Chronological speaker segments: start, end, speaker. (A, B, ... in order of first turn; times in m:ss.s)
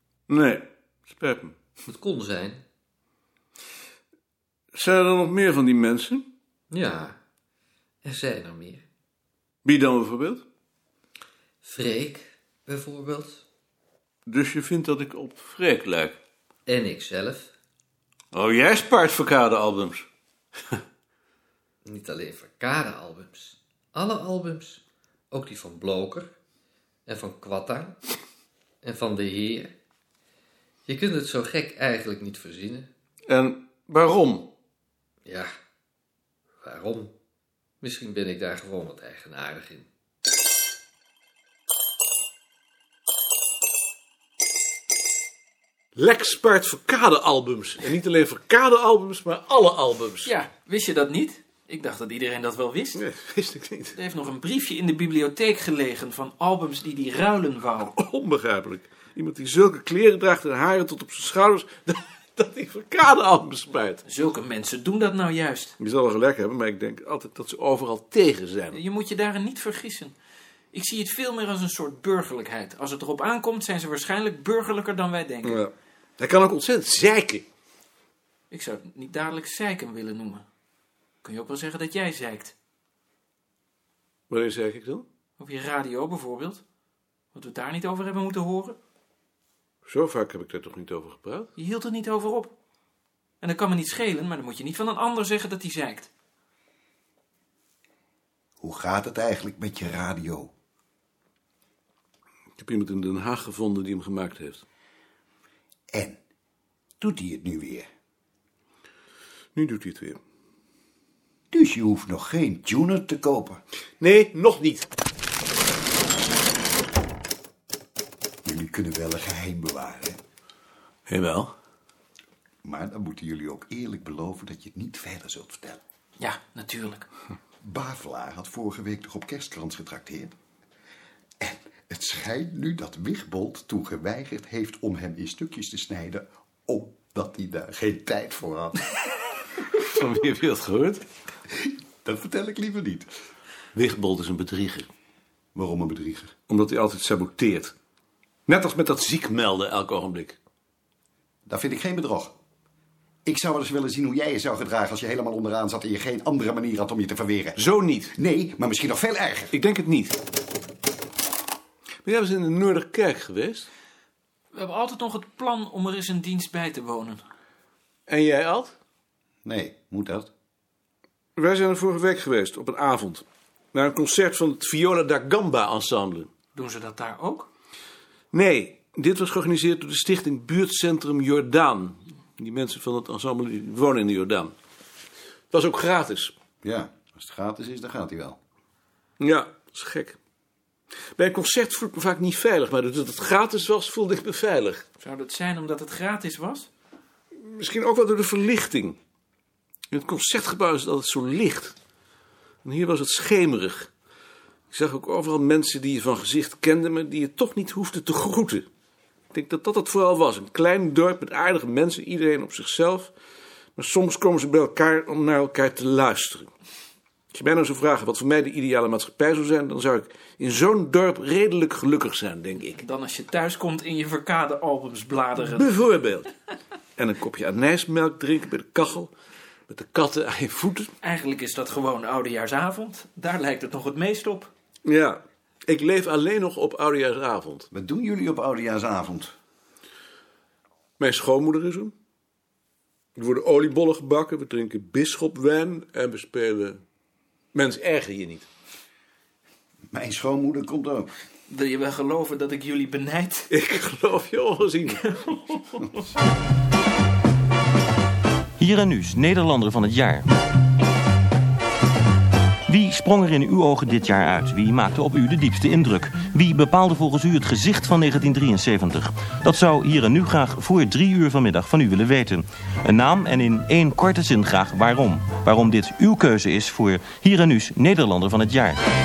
0:00.3-0:01.6 A
0:01.9-0:02.6 B
0:04.7-0:06.3 A
0:06.7-0:07.2 B
0:08.0-0:08.8 B
0:09.6-0:10.4 A
0:11.6-0:13.4 B
0:14.3-0:16.2 A
0:16.7-0:17.5 B
0:18.3-0:20.1 A
0:21.8-0:26.4 B
0:27.1-0:28.0 B
0:28.8-0:29.7 B
0:30.9-0:32.9 B
0:33.3-0:34.5 A
0:35.2-0:35.5 B
0:36.6-0:37.1 B
0:37.8-0:39.9 B
0:46.0-0:50.3 A
0:50.2-0:53.0 C
0:53.0-0:54.0 A
0:54.0-0:58.0 C
0:58.0-1:04.0 A
1:04.0-1:05.8 C
1:05.8-1:08.8 A
1:08.7-1:10.2 C
1:10.7-1:15.6 C
1:15.4-1:17.5 A
1:18.5-1:20.5 C
1:21.2-1:22.5 C
1:24.3-1:25.0 A
1:25.4-1:26.6 C
1:27.3-1:28.8 C
1:29.9-1:31.5 A
1:31.6-1:32.5 C
1:33.4-1:36.1 C
1:38.6-1:40.5 D
1:42.6-1:44.6 A
1:45.9-1:46.2 D
1:47.0-1:47.9 D
1:49.6-1:50.2 A
1:51.5-1:53.6 D
1:54.0-1:54.9 A
1:58.4-2:00.2 D
2:01.1-2:01.5 A
2:02.6-2:05.8 D
2:06.2-2:07.1 C
2:07.6-2:10.4 D
2:11.4-2:18.8 D
2:19.8-2:21.0 A
2:21.6-2:23.1 D
2:23.7-2:24.9 A
2:25.6-2:26.3 D
2:26.5-2:27.7 A
2:28.5-2:30.4 A
2:31.5-2:32.3 D
2:33.2-2:37.6 D
2:37.6-2:38.1 A
2:38.1-2:39.5 D
2:39.5-2:40.2 A
2:42.0-2:43.7 A
2:44.5-2:47.2 C
2:48.1-2:48.7 A
2:49.4-2:50.3 D
2:51.4-2:56.3 A
2:56.6-2:57.5 C
2:58.3-3:04.5 A
3:05.5-3:06.3 A
3:06.6-3:08.4 D
3:09.2-3:10.2 A
3:11.2-3:14.8 A
3:15.0-3:16.7 C
3:17.4-3:19.0 A
3:19.9-3:21.8 A
3:22.6-3:23.9 A
3:24.7-3:28.7 A
3:29.3-3:33.1 A
3:33.8-3:36.5 A
3:37.3-3:42.8 A
3:42.7-3:45.8 C
3:45.4-3:46.3 A
3:47.0-3:49.1 A
3:49.7-3:50.9 A
3:51.0-3:54.5 C
3:54.8-3:57.7 A
3:57.7-3:59.3 D
4:01.0-4:01.9 A
4:03.2-4:06.8 A
4:07.5-4:08.5 A
4:09.9-4:11.1 D
4:11.5-4:13.5 C
4:13.5-4:15.2 A
4:15.0-4:15.9 C
4:18.6-4:20.3 E
4:22.7-4:38.8 E